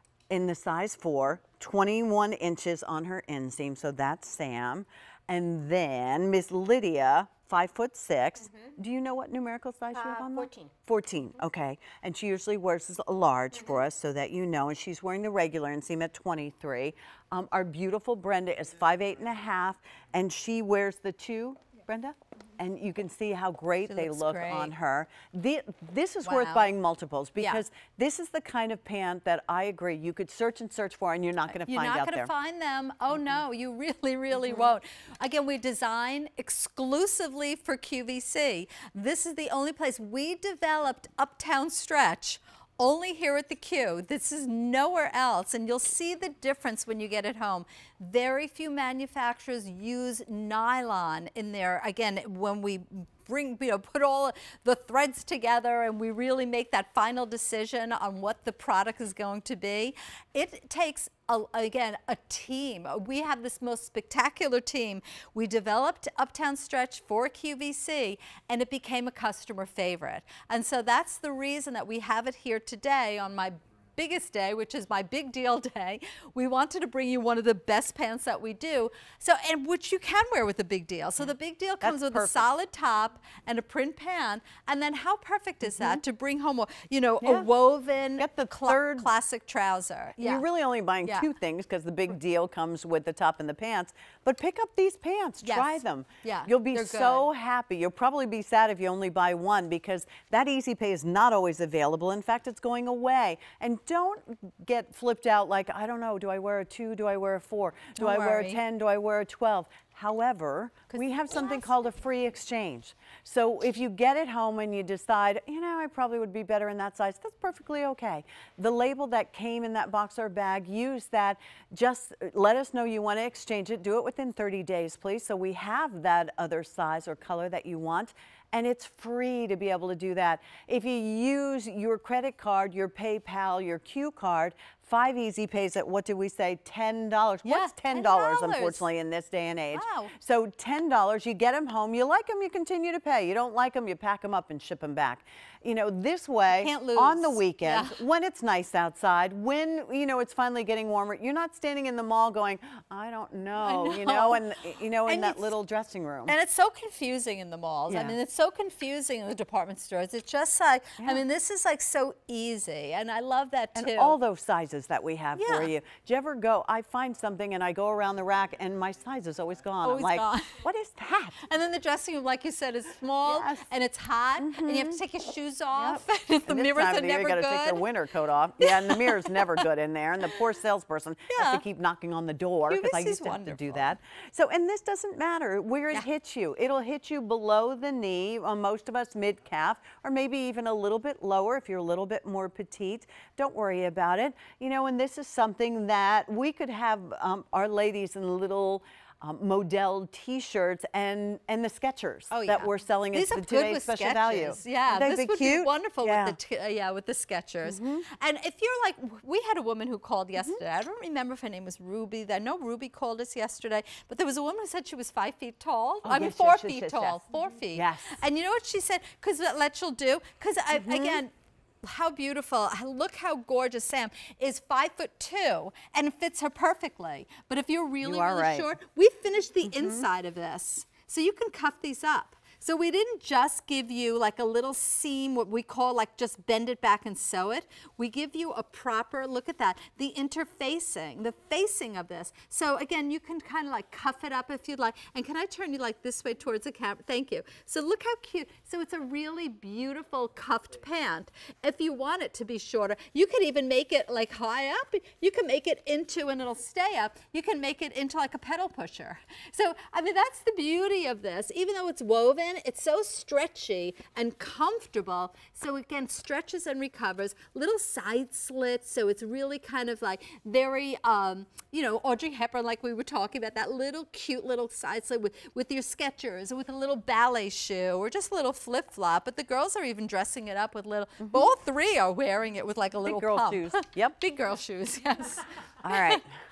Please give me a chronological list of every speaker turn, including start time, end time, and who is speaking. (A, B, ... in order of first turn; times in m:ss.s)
0:00.3-0:32.3 A
0:23.9-0:24.7 B
0:26.2-0:26.7 B
0:27.4-0:27.6 B
0:31.5-1:30.4 B
1:21.8-1:22.5 A
1:25.6-1:26.0 A
1:27.2-1:27.5 A
1:28.2-1:29.1 A
1:30.2-2:36.3 A
1:35.4-1:37.3 B
1:48.0-1:48.6 B
1:50.9-1:51.7 B
2:17.4-2:18.8 B
2:19.7-2:20.1 B
2:26.5-2:28.0 B
2:33.6-2:34.4 B
2:35.1-2:35.5 B
2:36.3-2:44.2 B
2:37.9-2:38.2 A
2:43.7-2:51.4 A
2:45.3-2:45.7 B
2:49.8-2:50.6 B
2:51.4-2:57.9 B
2:53.2-2:53.7 A
2:54.4-2:55.0 A
2:55.8-3:26.4 A
2:58.6-2:59.6 B
3:01.3-3:01.6 B
3:02.7-3:03.9 B
3:22.3-3:41.3 B
3:27.6-3:28.0 A
3:36.0-3:38.2 A
3:40.8-3:41.2 A
3:41.8-4:46.2 B
3:48.0-3:48.7 A
3:49.7-3:50.0 A
4:41.2-4:41.5 A
4:43.0-4:44.2 A
4:45.8-4:46.2 A